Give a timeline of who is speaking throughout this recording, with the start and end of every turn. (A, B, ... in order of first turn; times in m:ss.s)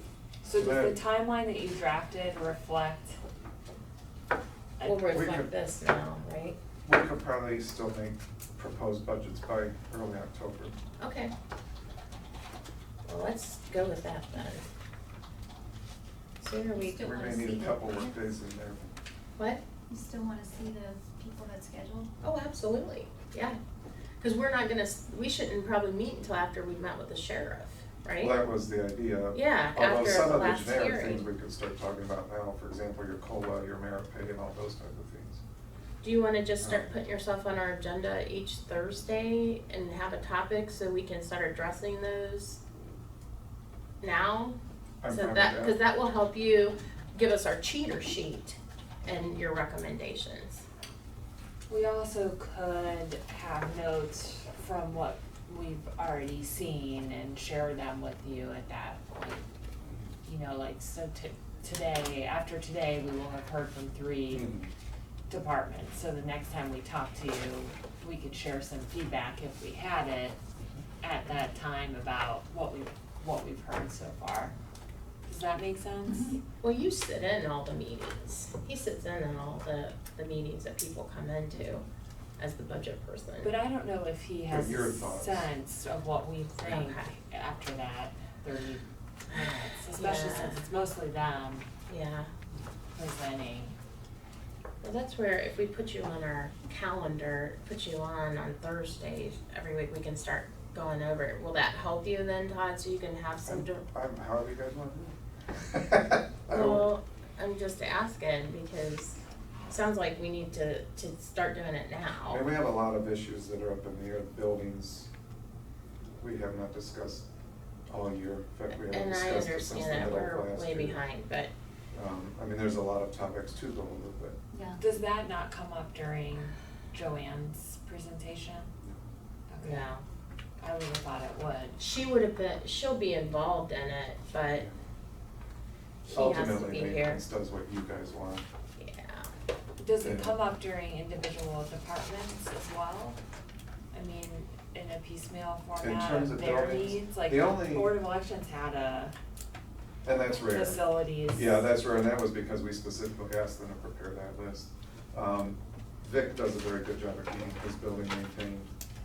0:00.4-0:03.2 A
0:00.6-0:01.0 B
0:04.8-0:05.1 A
0:04.8-0:06.6 C
0:05.1-0:05.5 B
0:06.9-0:10.8 B
0:11.0-0:11.3 C
0:13.0-0:14.7 C
0:16.4-0:17.0 C
0:16.7-0:18.2 D
0:17.0-0:18.9 B
0:19.4-0:19.6 C
0:19.9-0:22.1 D
0:22.2-0:23.6 C
0:24.2-0:28.4 C
0:28.2-0:35.4 B
0:29.3-0:31.2 C
0:36.0-0:42.6 C
0:36.6-0:36.9 B
0:44.0-0:44.6 C
0:45.0-0:45.8 B
0:45.1-0:50.6 C
0:51.7-0:59.4 A
1:00.2-1:04.5 A
1:04.3-1:04.7 B
1:05.3-1:10.4 A
1:11.0-1:14.5 A
1:15.3-1:16.4 A
1:16.1-1:16.4 D
1:16.6-1:21.8 C
1:22.4-1:23.5 C
1:23.4-1:31.7 A
1:24.5-1:25.5 B
1:26.6-1:27.1 C
1:29.9-1:30.6 C
1:31.9-1:32.3 C
1:33.0-1:33.8 A
1:34.8-1:43.8 C
1:43.5-1:46.9 B
1:46.5-1:52.4 C
1:52.3-1:55.1 B
1:56.2-1:57.3 B
1:57.9-2:01.0 B
1:58.7-2:01.5 C
2:01.9-2:04.4 B
2:04.5-2:04.8 D
2:04.8-2:08.7 A
2:09.5-2:09.9 A
2:09.6-2:10.0 C
2:10.6-2:11.8 A
2:11.8-2:14.7 C
2:16.1-2:17.2 C
2:16.1-2:18.4 B
2:18.8-2:19.3 C
2:19.8-2:23.2 A
2:20.0-2:20.4 B
2:23.9-2:29.1 A
2:25.8-2:27.9 B
2:30.0-2:38.7 B
2:30.4-2:31.6 A